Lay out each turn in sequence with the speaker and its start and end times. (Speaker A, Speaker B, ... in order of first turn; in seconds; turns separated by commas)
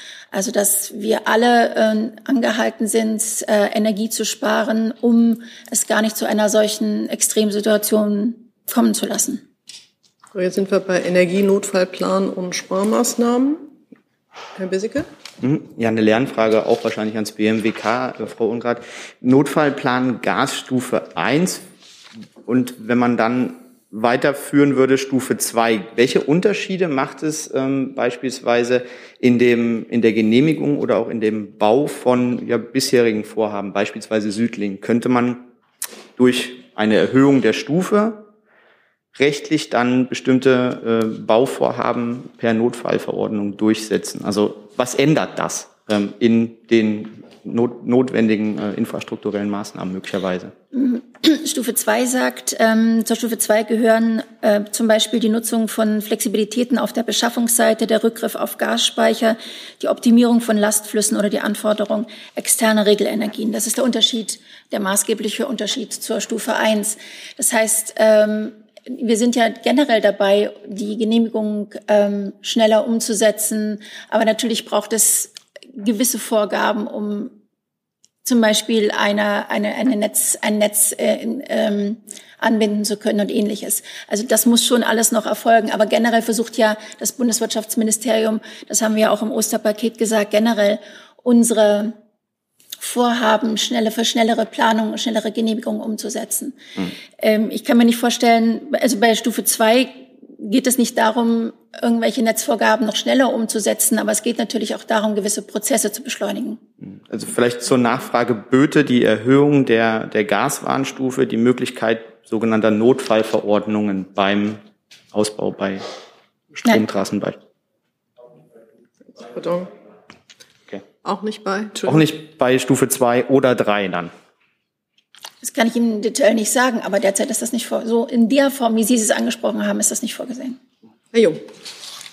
Speaker A: 0.3-9.4, Speaker B: 10.3-13.7, Speaker B: 14.6-15.1, Speaker C: 15.4-21.6, Speaker C: 22.4-35.5, Speaker C: 36.2-38.3, Speaker C: 39.1-50.5, Speaker A: 50.7-77.4, Speaker A: 78.2-92.0, Speaker A: 92.8-96.6, Speaker A: 97.2-106.6, Speaker C: 106.9-114.6, Speaker C: 115.1-115.9, Speaker C: 116.6-117.4, Speaker B: 119.2-119.7, Speaker B: 121.0-122.0, Speaker C: 121.8-124.1, Speaker A: 125.4-130.6, Speaker B: 131.1-131.4